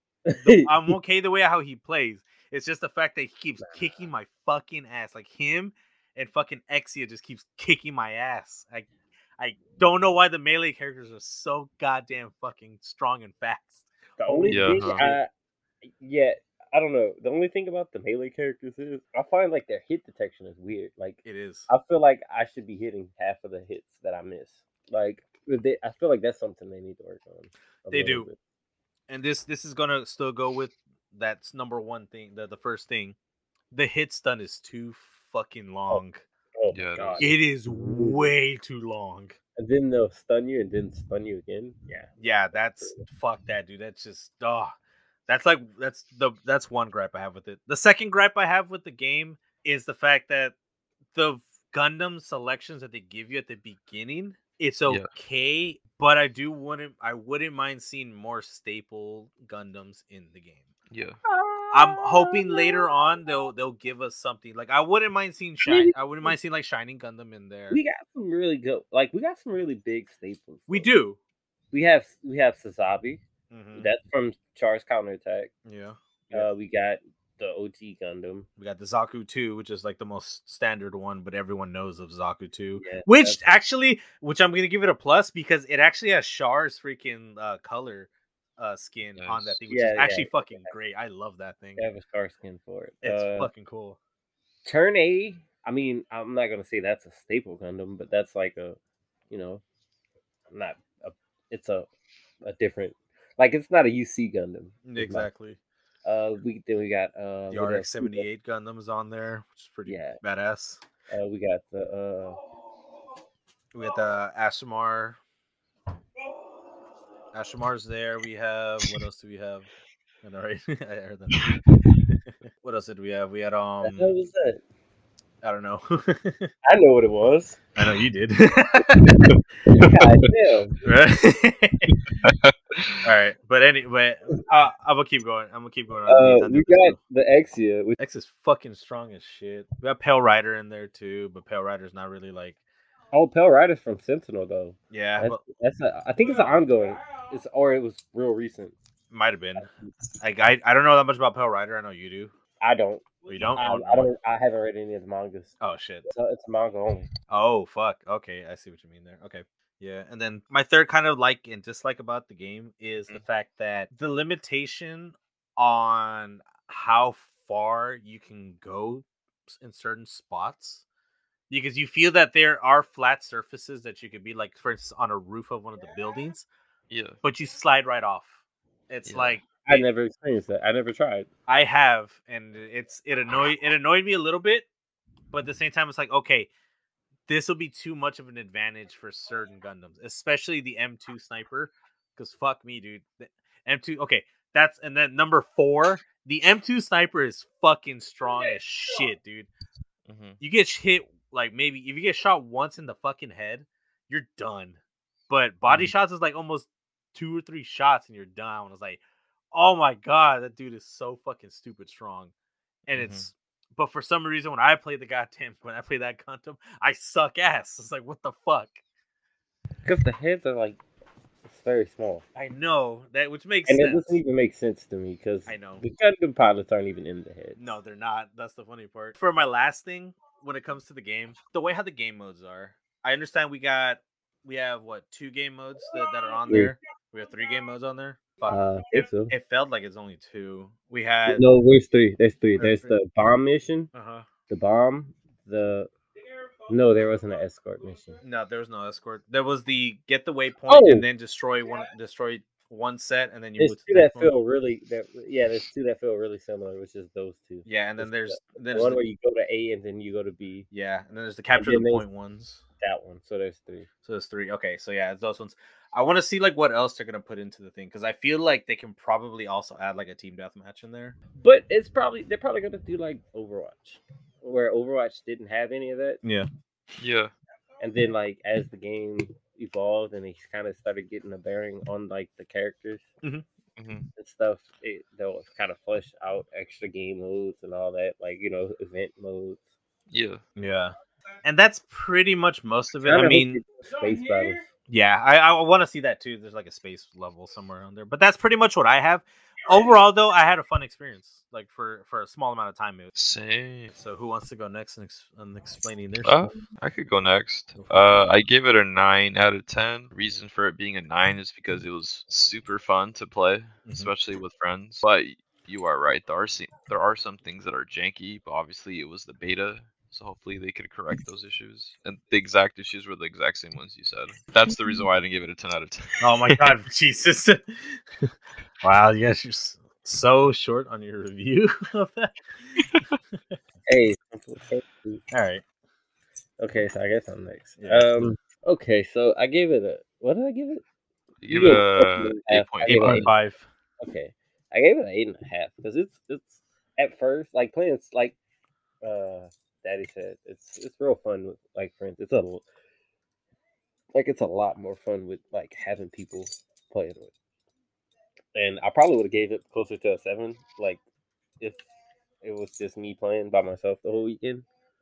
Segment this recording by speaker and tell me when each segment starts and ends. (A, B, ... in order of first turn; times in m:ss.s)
0:00.2-0:00.9 A
0:00.4-0:15.2 B
0:14.2-0:15.3 A
0:14.5-0:15.1 C
0:15.8-0:28.4 A
0:21.2-0:21.7 B
0:27.9-0:28.3 B
0:29.1-0:33.2 B
0:33.7-0:36.2 B
0:36.6-0:38.3 A
0:36.7-0:37.3 C
0:37.2-0:39.4 B
0:39.6-0:43.0 A
0:42.2-0:44.7 B
0:45.3-0:50.5 B
0:51.1-1:00.7 B
1:00.9-1:01.2 C
1:01.2-1:02.9 A
1:01.7-1:07.8 B
1:05.6-1:06.4 A
1:07.7-1:10.9 A
1:10.7-1:11.2 B
1:11.7-1:13.2 A
1:13.5-1:13.9 B
1:13.7-1:15.5 A
1:15.6-1:16.5 B
1:16.3-1:18.4 A
1:18.6-1:31.9 B
1:22.8-1:23.4 A
1:29.2-1:29.6 C
1:29.7-1:30.7 A
1:31.8-1:33.5 A
1:33.0-1:34.0 B
1:34.6-1:38.8 A
1:39.3-1:39.6 A
1:40.5-1:41.9 A
1:42.4-1:45.3 A
1:44.8-1:45.6 B
1:46.0-1:48.2 A
1:47.5-1:50.8 B
1:49.8-1:50.2 A
1:51.1-1:52.4 A
1:53.7-1:55.2 B
1:57.3-1:59.7 B
2:00.2-2:01.5 B
2:02.1-2:04.1 B
2:03.8-2:04.6 A
2:05.4-2:06.5 B
2:06.6-2:07.6 A
2:07.8-2:09.3 B
2:09.0-2:10.8 A
2:10.8-2:11.9 B
2:12.2-2:13.0 C
2:13.0-2:17.0 B
2:16.1-2:18.0 A
2:18.0-2:22.6 B
2:23.1-2:28.8 A
2:24.9-2:25.4 B
2:29.1-2:29.7 B
2:30.2-2:32.3 B
2:32.6-2:35.5 A
2:33.3-2:34.1 B
2:35.6-2:36.1 B
2:36.0-2:37.1 A
2:37.3-2:50.8 B
2:51.5-2:56.4 B
2:56.9-2:57.2 C
2:57.2-2:58.4 B
2:58.9-2:59.8 B
2:59.0-2:59.4 C
2:59.7-3:01.3 A
3:01.5-3:04.7 B
3:05.3-3:06.5 B
3:07.3-3:19.5 B
3:20.1-3:20.4 C
3:20.4-3:29.0 B
3:25.7-3:25.9 C
3:29.5-3:32.3 B
3:32.9-3:38.8 B
3:32.9-3:33.3 C
3:39.8-3:40.8 A
3:41.5-3:42.2 A
3:42.3-3:44.2 B
3:43.7-3:47.7 A
3:45.5-3:45.8 B
3:47.6-4:01.4 B
3:56.5-3:56.7 A
3:58.5-3:59.3 A
4:01.2-4:03.9 A
4:02.6-4:03.0 B
4:03.9-4:04.2 B
4:04.5-4:05.9 A
4:06.7-4:08.2 A
4:08.2-4:14.3 B
4:10.7-4:11.0 A
4:13.6-4:20.7 A
4:17.6-4:19.0 B
4:20.7-4:22.6 B
4:21.6-4:22.0 A
4:22.8-4:23.9 A
4:24.0-4:31.2 B
4:31.4-4:36.2 A
4:37.0-4:37.3 C
4:37.8-4:43.1 A
4:43.8-4:44.1 C
4:44.2-4:49.6 A
4:50.1-4:50.4 C
4:50.6-4:50.9 B
4:51.4-4:53.6 B
4:53.0-4:54.6 A
4:54.9-5:03.1 B
5:03.1-5:03.9 C
5:03.9-5:06.5 B
5:06.2-5:26.6 C
5:07.7-5:08.2 B
5:13.8-5:14.1 B
5:26.2-5:28.0 B
5:28.8-5:32.3 B
5:33.9-5:35.2 A
5:35.3-5:35.6 B
5:36.6-5:40.8 A
5:37.8-5:38.1 B
5:41.4-5:43.3 C
5:41.5-5:43.3 A
5:42.8-5:43.7 B
5:44.0-5:48.4 A
5:49.0-5:52.6 A
5:54.1-5:57.3 A
5:58.5-6:01.0 A
6:01.6-6:01.8 A
6:02.4-6:04.6 A